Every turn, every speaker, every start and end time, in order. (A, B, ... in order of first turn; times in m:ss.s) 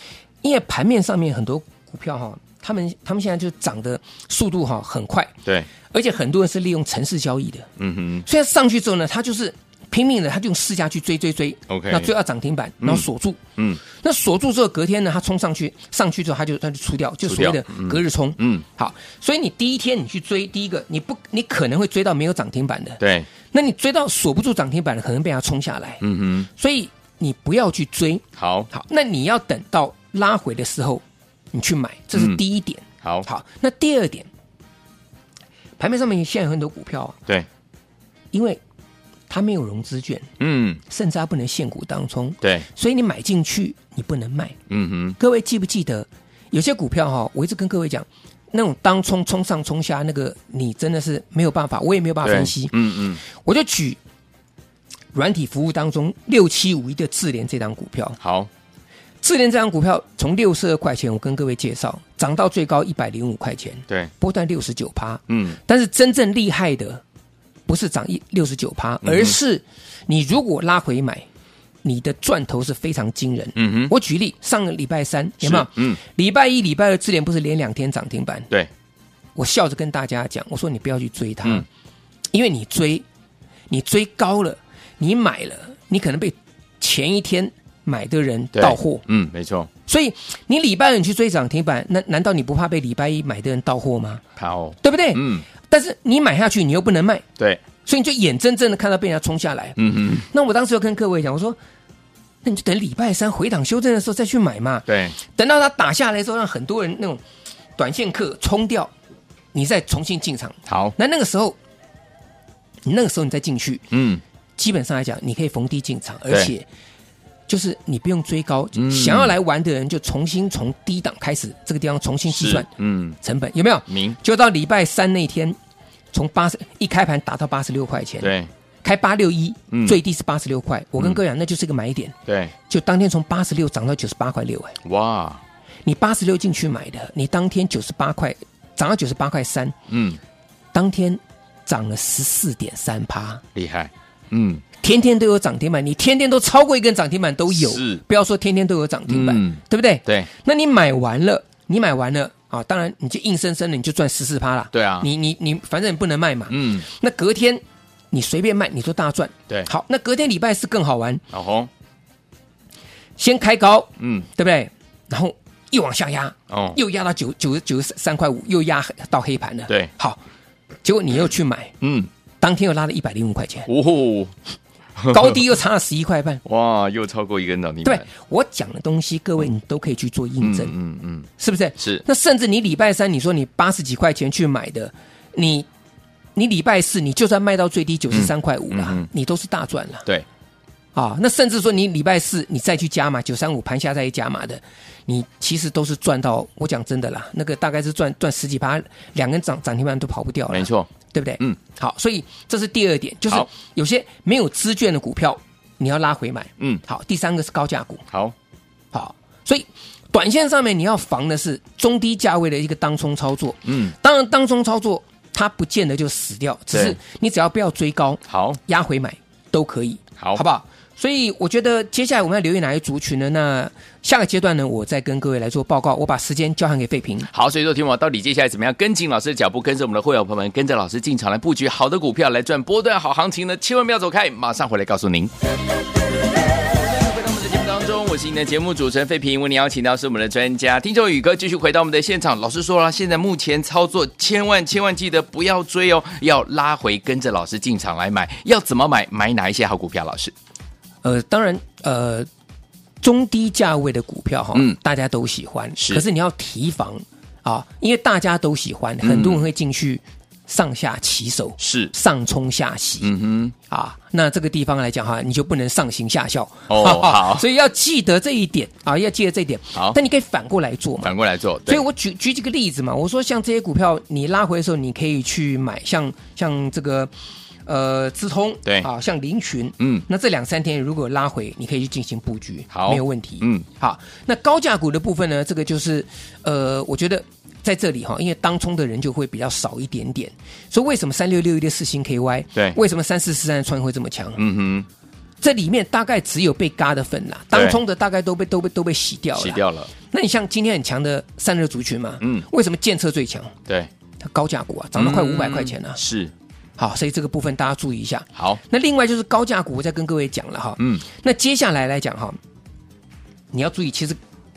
0:00.4-0:05.3 A
0:05.9-0:07.7 A
0:07.8-0:08.2 B
0:08.2-0:13.4 A
0:11.7-0:12.1 B
0:13.9-0:23.0 A
0:17.2-0:18.6 B
0:23.0-0:23.3 B
0:23.5-0:34.3 A
0:26.0-0:26.5 B
0:28.4-0:28.7 B
0:32.1-0:32.4 B
0:35.8-0:37.2 A
0:38.3-0:38.6 A
0:39.3-0:40.3 A
0:40.4-0:40.8 B
0:40.9-0:44.6 A
0:42.4-0:42.7 B
0:44.7-0:45.2 B
0:45.2-0:54.0 A
0:52.2-0:53.2 B
0:55.1-0:58.2 A
0:58.2-0:58.5 B
0:59.2-1:07.0 A
1:05.3-1:05.6 B
1:07.7-1:11.3 A
1:09.0-1:09.4 B
1:11.8-1:18.5 A
1:13.6-1:13.9 B
1:15.4-1:16.0 B
1:19.4-1:21.7 A
1:22.3-1:23.0 A
1:23.7-1:29.0 A
1:28.6-1:29.7 B
1:29.9-1:34.2 A
1:34.4-1:35.4 B
1:34.8-1:37.2 A
1:37.8-1:41.6 A
1:39.8-1:40.3 B
1:42.4-1:47.2 A
1:44.9-1:45.2 B
1:47.8-1:48.9 A
1:49.5-1:51.6 A
1:50.7-1:51.0 B
1:52.8-1:53.8 A
1:53.9-1:54.2 B
1:54.6-1:56.7 A
1:57.5-2:02.7 A
1:58.8-1:59.3 B
2:02.3-2:03.2 B
2:03.2-2:05.6 A
2:03.9-2:04.2 B
2:06.1-2:12.2 A
2:08.2-2:08.5 B
2:09.7-2:10.0 B
2:12.3-2:12.5 B
2:12.7-2:14.8 A
2:14.8-2:15.4 B
2:15.8-2:19.8 A
2:19.9-2:20.2 B
2:20.7-2:23.4 A
2:23.6-2:24.6 B
2:24.8-2:41.2 A
2:27.5-2:28.0 B
2:29.1-2:30.3 B
2:34.7-2:35.1 B
2:36.5-2:36.9 B
2:41.3-2:41.7 B
2:43.2-2:50.2 A
2:44.0-2:44.3 B
2:46.5-2:46.8 B
2:50.8-2:51.7 A
2:51.8-2:52.1 B
2:52.4-2:53.7 A
2:53.7-2:54.3 B
2:55.0-2:55.4 B
2:55.1-2:56.4 A
2:56.4-2:58.0 B
2:57.8-3:00.7 A
3:00.4-3:01.3 B
3:01.4-3:05.7 A
3:06.4-3:10.1 A
3:08.1-3:09.1 B
3:11.0-3:28.0 A
3:20.5-3:20.9 B
3:28.9-3:47.3 A
3:33.6-3:33.9 B
3:36.7-3:37.0 B
3:38.3-3:38.6 B
3:47.3-3:55.3 B
3:56.8-4:10.3 B
4:11.0-4:12.3 A
4:13.0-4:23.1 A
4:15.8-4:16.0 B
4:19.0-4:19.4 B
4:21.6-4:21.9 B
4:23.0-4:23.6 B
4:23.7-4:31.1 A
4:26.7-4:27.4 B
4:31.0-4:31.8 B
4:31.7-4:37.1 A
4:37.7-4:54.4 A
4:39.8-4:40.1 B
4:42.7-4:43.7 B
4:54.4-4:54.9 B
4:55.4-5:03.5 A
4:57.5-4:57.8 B
4:59.4-4:59.9 B
5:02.2-5:02.5 B
5:04.2-5:06.0 A
5:05.0-5:06.3 B
5:06.8-5:12.4 A
5:08.4-5:08.6 B
5:10.8-5:11.0 B
5:13.5-5:14.2 A